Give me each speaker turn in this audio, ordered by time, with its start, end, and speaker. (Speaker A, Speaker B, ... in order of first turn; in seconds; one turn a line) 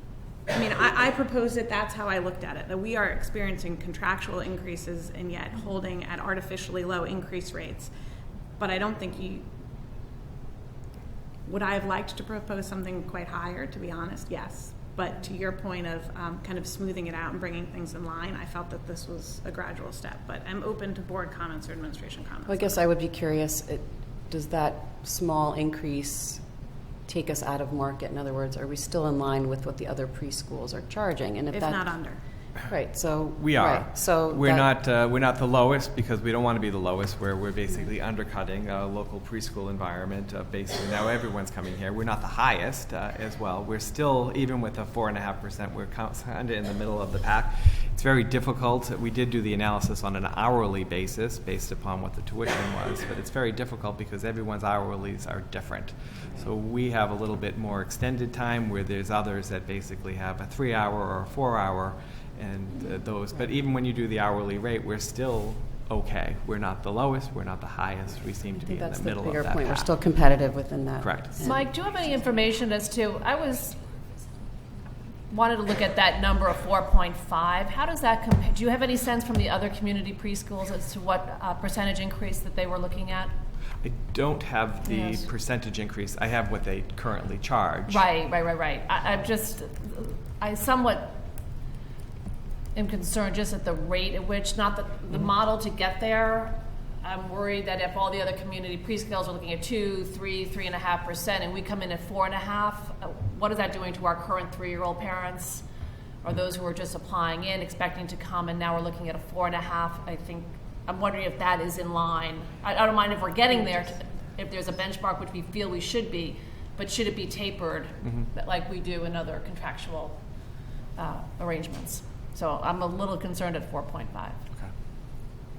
Speaker A: 0.5-7.9
Speaker A: 8.6-9.4
Speaker A: 11.4-22.8
Speaker B: 22.4-26.4
Speaker B: 27.1-31.9
Speaker A: 31.5-32.2
Speaker B: 32.6-34.7
Speaker C: 33.4-69.9
Speaker B: 68.6-71.7
Speaker C: 71.0-71.5
Speaker D: 71.4-73.8
Speaker D: 75.3-83.3
Speaker C: 83.8-88.0
Speaker D: 84.8-85.3
Speaker D: 87.9-91.2
Speaker D: 92.7-105.6
Speaker D: 106.2-120.2
Speaker D: 121.0-124.4